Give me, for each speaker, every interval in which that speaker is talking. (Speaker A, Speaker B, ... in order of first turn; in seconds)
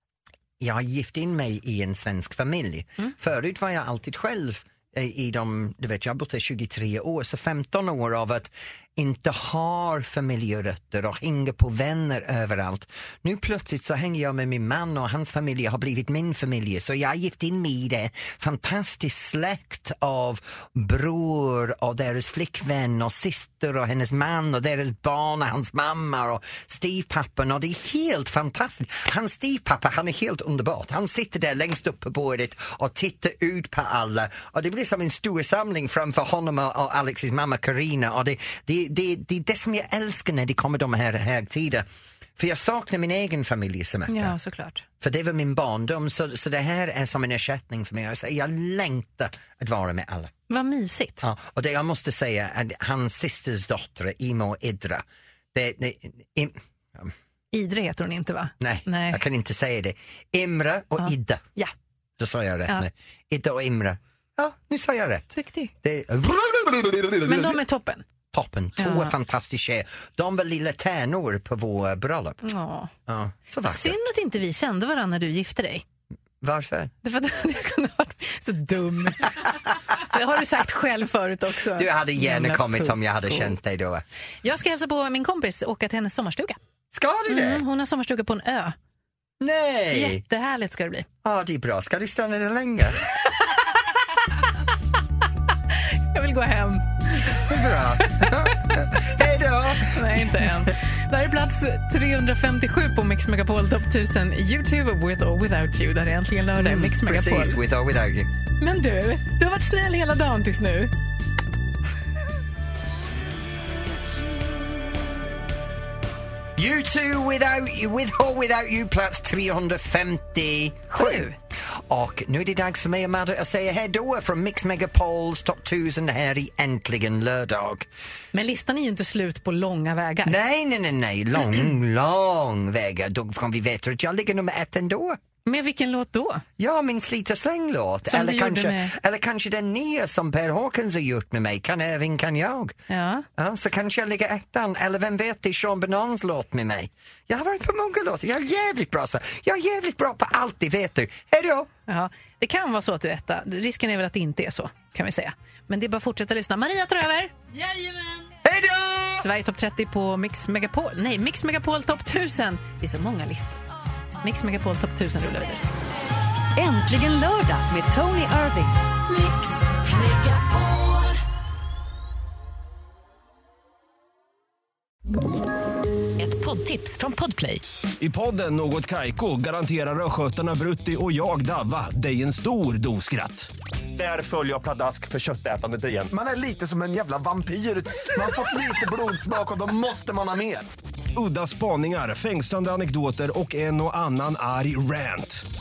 Speaker A: 0.6-41.9, 42.4-44.3, 45.0-50.3, 51.2-55.0, 55.5-57.1, 58.6-61.4, 62.2-67.6, 68.3-72.4, 73.1-74.1, 76.4-76.9, 81.7-84.0, 86.9-87.6, 89.4-90.2, 91.2-93.0, 97.3-100.7, 106.5-108.3, 116.6-127.9, 130.2-135.2, 136.6-142.8, 143.4-151.7, 158.4-159.2
Speaker B: 44.1-44.9, 50.5-51.2, 57.5-59.2, 61.0-61.7, 65.3-65.7, 67.2-68.1, 68.8-69.1, 72.4-72.9, 73.7-75.8, 77.0-83.5, 84.4-86.6, 87.3-88.8, 89.9-91.1, 96.0-97.4, 99.9-107.6, 108.6-110.9, 120.9-121.4, 128.3-130.4, 135.4-136.4, 138.1-138.9, 142.9-143.3, 151.9-157.4, 159.2-163.6, 164.2-165.8
Speaker C: 166.6-171.2, 176.2-177.6
Speaker D: 178.0-186.1, 191.1-195.4
Speaker E: 186.1-190.7